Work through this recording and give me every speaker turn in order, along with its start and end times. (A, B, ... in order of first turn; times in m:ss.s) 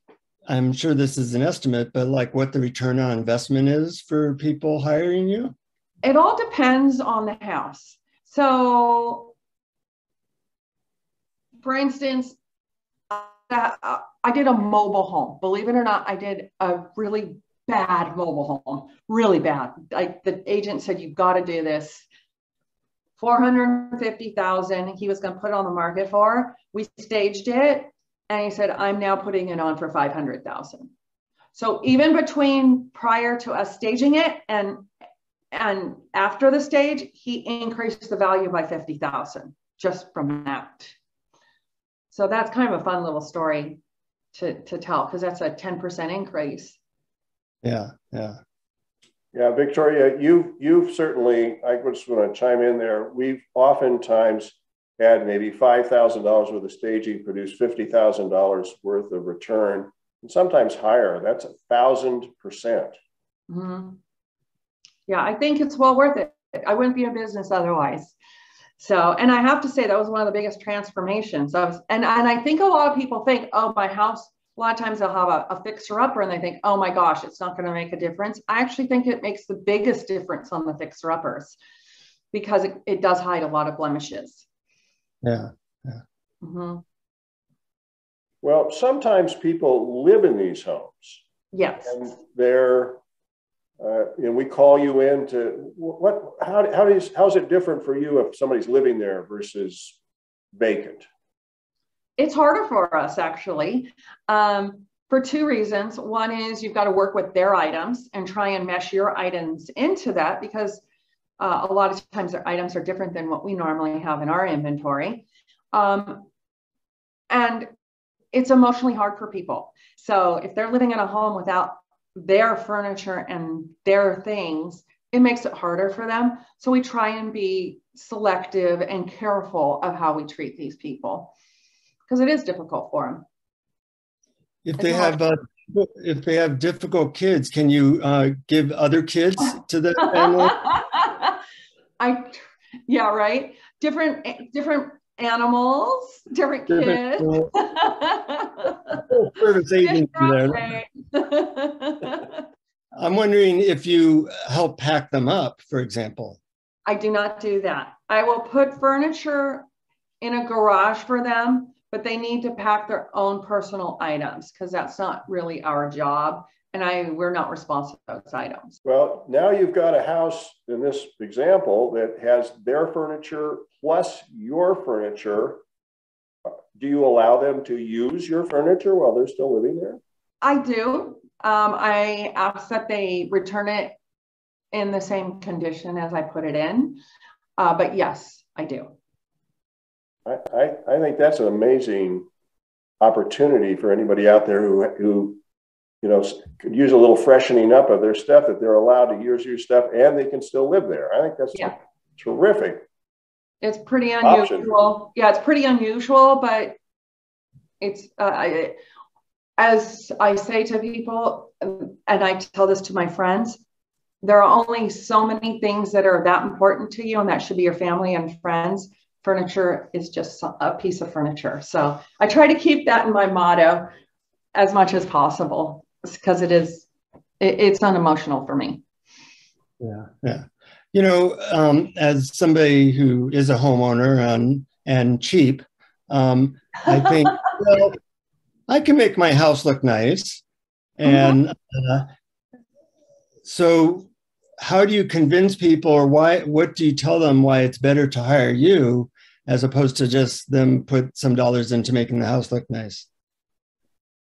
0:00.5-0:05.5 A
0:06.0-0:09.3 B
0:11.6-0:12.4 B
0:13.1-0:22.1 B
0:23.2-0:30.9 B
0:31.5-0:34.9 B
0:35.5-0:41.0 B
0:42.1-0:43.8 B
0:44.3-0:46.8 B
0:47.6-0:48.4 A
0:49.3-1:03.0 C
1:03.5-1:04.0 B
1:05.1-1:08.2 B
1:08.8-1:21.6 B
1:22.3-1:24.5 B
1:25.2-1:26.0 A
1:26.4-1:26.8 B
1:28.4-1:31.2 C
1:31.5-1:32.1 B
1:31.9-1:33.0 C
1:33.8-1:40.0 C
1:40.5-1:41.1 C
1:42.2-1:50.8 B
1:51.4-1:56.3 B
1:57.3-1:57.7 B
1:58.3-2:11.3 B
2:12.1-2:13.2 B
2:14.6-2:20.6 A
2:14.8-2:15.2 B
2:20.0-2:21.4 B
2:22.0-2:29.0 B
2:26.7-2:27.5 A
2:28.9-2:30.8 A
2:29.8-2:32.4 B
2:33.0-2:36.4 A
2:36.9-2:39.7 B
2:40.2-2:48.8 B
2:48.8-2:55.6 C
2:56.8-3:00.0 C
3:00.4-3:04.0 B
3:04.7-3:07.0 B
3:07.6-3:09.0 B
3:10.2-3:12.3 C
3:13.0-3:15.4 C
3:16.0-3:22.8 C
3:23.6-3:26.8 B
3:24.2-3:24.7 C
3:27.8-3:28.8 B
3:29.6-3:33.6 B
3:34.2-3:43.9 B
3:44.5-3:46.9 B
3:47.4-3:48.8 B
3:49.8-3:58.0 A
3:58.7-4:00.4 A
4:01.0-4:02.1 A
4:01.0-4:01.4 B
4:03.4-4:04.1 A
4:04.6-4:13.1 A